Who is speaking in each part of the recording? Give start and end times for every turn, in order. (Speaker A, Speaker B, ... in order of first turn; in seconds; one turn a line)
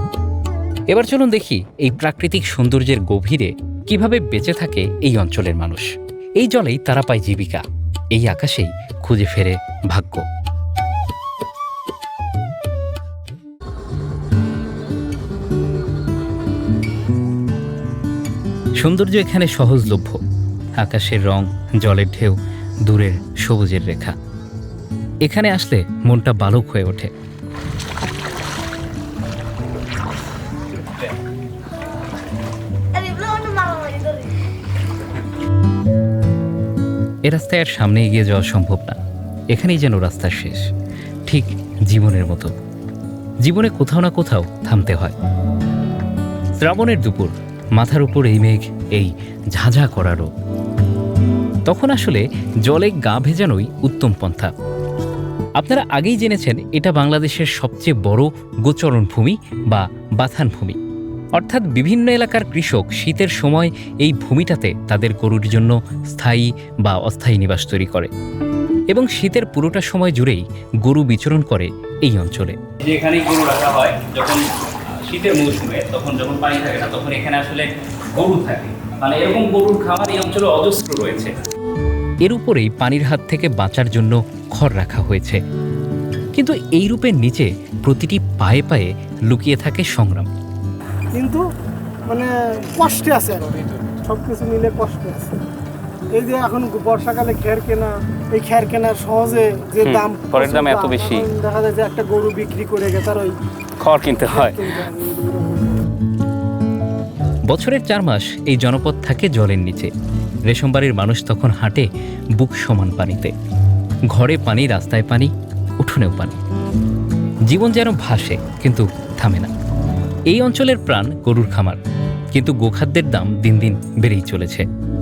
Speaker A: 0.9-10.2
Speaker A: 18.8-20.2
Speaker A: 20.8-24.1
Speaker A: 25.2-27.1
Speaker A: 37.2-39.0
Speaker A: 39.5-40.6
Speaker A: 41.3-42.5
Speaker A: 43.4-45.1
Speaker A: 46.6-50.3
Speaker A: 51.7-54.5
Speaker A: 55.6-60.8
Speaker A: 61.4-68.1
Speaker A: 68.9-72.6
Speaker B: 72.8-81.3
Speaker A: 82.2-85.4
Speaker A: 86.3-90.3
Speaker C: 91.1-91.4
Speaker C: 92.0-93.5
Speaker C: 94.0-95.4
Speaker C: 96.1-103.3
Speaker B: 99.8-101.3
Speaker B: 103.8-104.6
Speaker C: 104.2-105.8
Speaker A: 107.5-109.9
Speaker A: 110.5-113.3
Speaker A: 114.1-115.3
Speaker A: 115.8-116.4
Speaker A: 117.5-119.5
Speaker A: 120.3-121.8
Speaker A: 122.3-124.6